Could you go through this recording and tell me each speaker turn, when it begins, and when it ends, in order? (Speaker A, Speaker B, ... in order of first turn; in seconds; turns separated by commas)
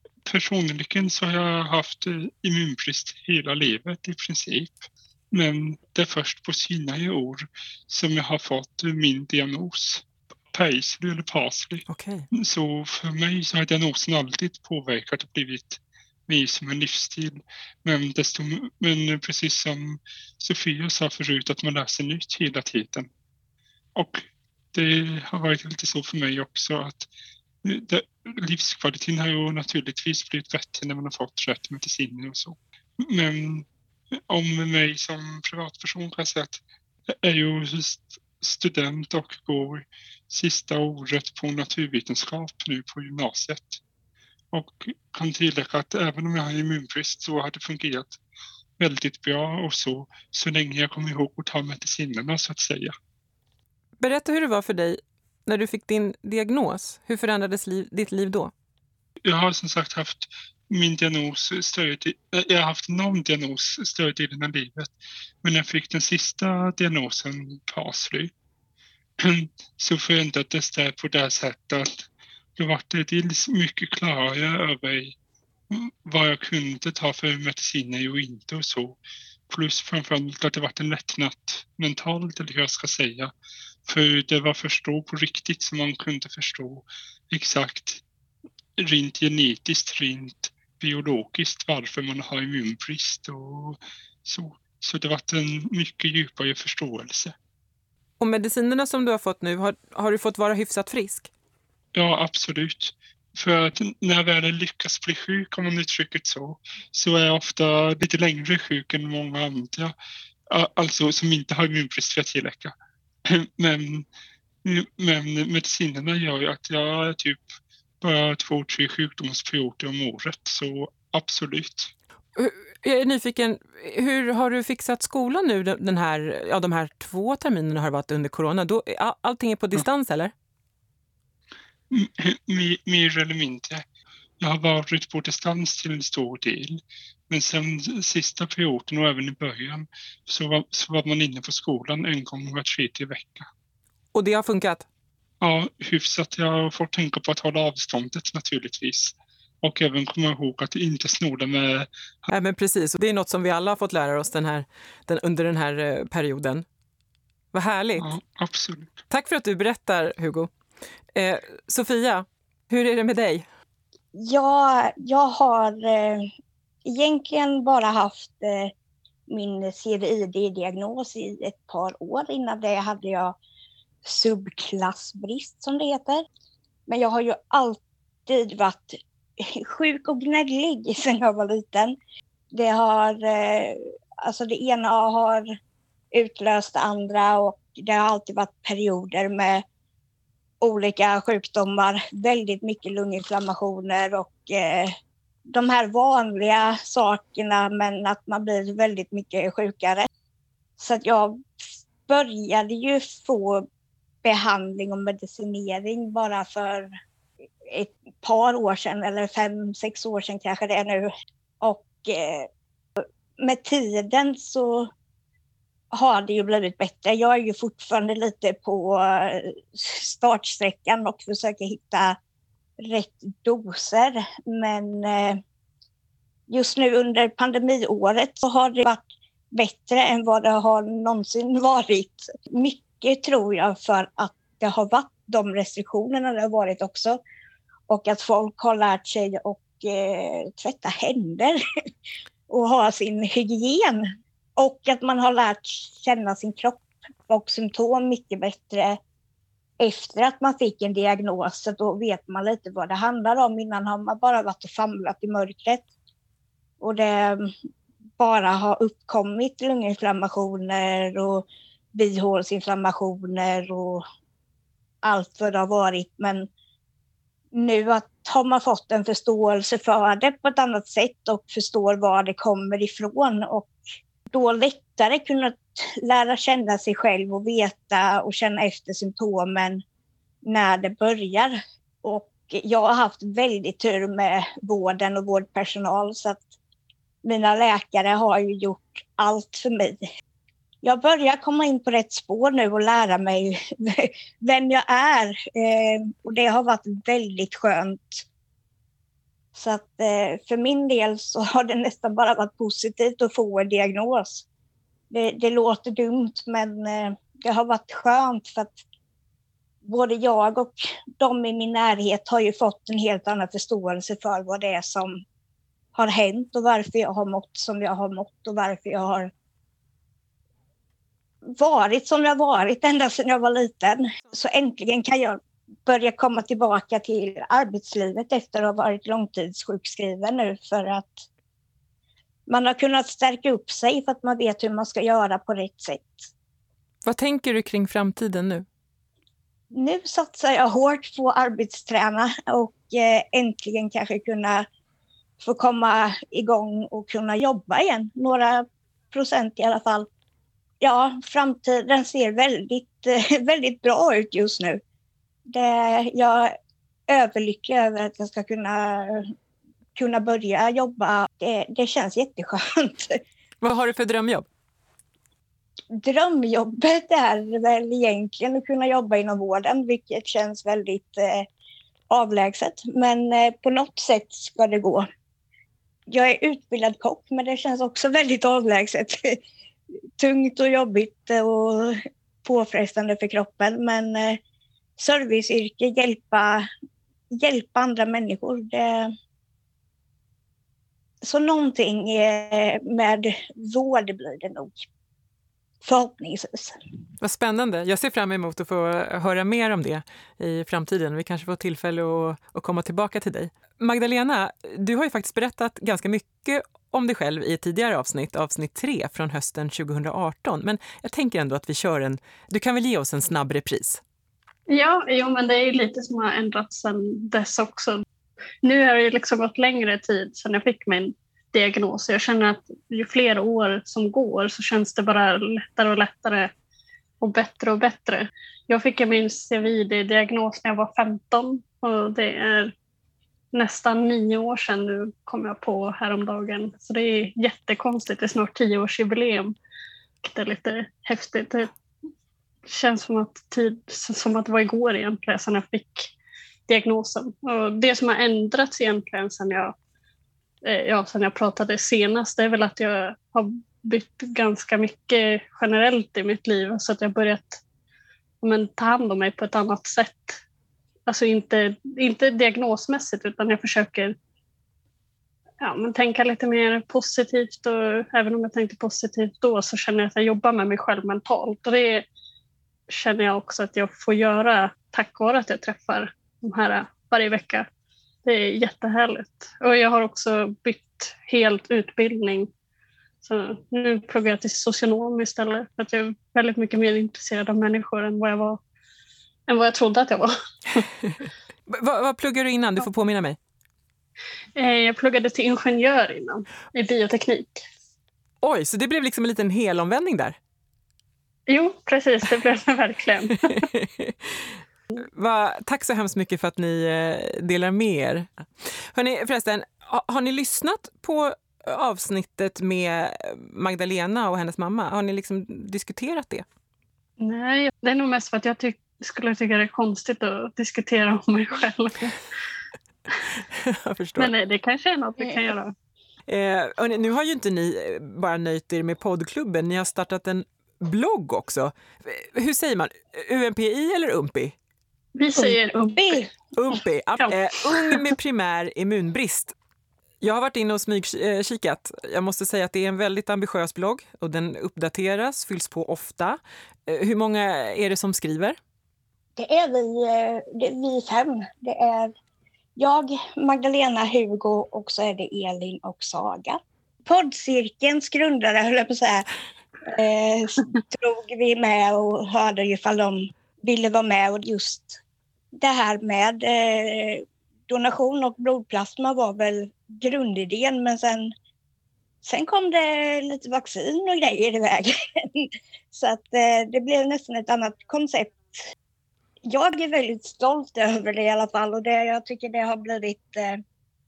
Speaker A: 0.2-23.1, Speaker B: 11.9-12.2, Speaker A: 23.9-27.1, Speaker A: 27.6-33.7, Speaker A: 34.3-43.8, Speaker A: 44.5-48.2, Speaker A: 48.8-52.9, Speaker B: 54.0-58.5, Speaker A: 59.2-68.3, Speaker A: 69.2-72.0, Speaker A: 72.6-75.2, Speaker A: 75.7-83.3, Speaker A: 83.9-88.0, Speaker A: 88.8-97.3, Speaker B: 98.2-101.3, Speaker A: 101.9-109.9, Speaker A: 110.5-112.7, Speaker A: 113.3-114.0, Speaker A: 114.6-117.5, Speaker A: 118.0-121.9, Speaker B: 122.3-130.3, Speaker A: 131.9-133.8, Speaker A: 134.4-143.5, Speaker B: 144.1-144.8, Speaker A: 145.4-151.9, Speaker B: 152.3-156.6, Speaker B: 157.5-158.1, Speaker A: 158.0-159.0, Speaker B: 159.1-160.5, Speaker B: 161.1-163.4, Speaker C: 164.1-166.3, Speaker C: 166.8-168.7, Speaker C: 169.3-173.3, Speaker C: 174.0-176.2, Speaker C: 176.9-181.9, Speaker C: 182.5-185.5, Speaker C: 186.1-189.6, Speaker C: 190.6-194.9, Speaker C: 195.4-200.1, Speaker C: 200.8-203.7, Speaker C: 204.2-206.9, Speaker C: 207.6-211.1, Speaker C: 211.6-212.5, Speaker C: 213.0-214.9, Speaker C: 215.9-222.2, Speaker C: 222.8-225.4, Speaker C: 226.5-237.2, Speaker C: 237.9-241.6, Speaker C: 242.5-249.0, Speaker C: 249.8-255.8, Speaker C: 256.8-257.5, Speaker C: 258.2-264.0, Speaker C: 265.0-266.5, Speaker C: 267.5-273.8, Speaker C: 274.3-279.8, Speaker C: 280.4-286.4, Speaker C: 287.2-290.1, Speaker C: 290.8-298.2, Speaker C: 299.5-304.4, Speaker C: 305.1-308.8, Speaker C: 309.8-315.2, Speaker C: 315.9-319.3, Speaker C: 321.5-331.2, Speaker C: 332.5-336.3, Speaker B: 337.0-338.6, Speaker C: 339.7-344.6, Speaker C: 345.4-350.1, Speaker C: 350.8-354.8, Speaker C: 355.5-356.5, Speaker C: 357.1-359.3, Speaker C: 359.9-363.2, Speaker B: 363.6-364.5, Speaker C: 365.9-371.4, Speaker C: 372.1-375.1, Speaker C: 376.1-379.4, Speaker C: 380.2-384.4, Speaker C: 385.0-386.7, Speaker C: 387.3-389.1, Speaker C: 391.2-394.9, Speaker C: 395.8-396.8, Speaker B: 397.2-414.0, Speaker D: 414.7-418.0, Speaker D: 418.6-426.5, Speaker D: 427.2-432.7, Speaker D: 433.5-439.6, Speaker D: 440.2-441.7, Speaker D: 442.6-446.1, Speaker D: 446.7-449.7, Speaker D: 450.6-457.6, Speaker D: 458.4-460.4, Speaker D: 461.1-464.1, Speaker D: 465.6-472.1, Speaker D: 472.9-477.7, Speaker D: 478.2-482.5, Speaker D: 483.2-488.6, Speaker D: 489.5-490.9, Speaker B: 491.7-493.4, Speaker D: 494.6-497.6, Speaker B: 498.4-500.4, Speaker D: 501.5-503.6, Speaker B: 503.5-516.4, Speaker D: 517.2-522.1, Speaker B: 523.5-524.3, Speaker D: 524.2-525.7, Speaker B: 526.3-534.5, Speaker D: 535.1-536.2, Speaker C: 535.3-536.3, Speaker B: 536.5-539.5, Speaker B: 540.2-548.6, Speaker C: 549.4-552.1, Speaker C: 552.8-559.2, Speaker C: 559.8-565.0, Speaker C: 565.5-571.3, Speaker C: 572.2-578.5, Speaker C: 579.5-583.6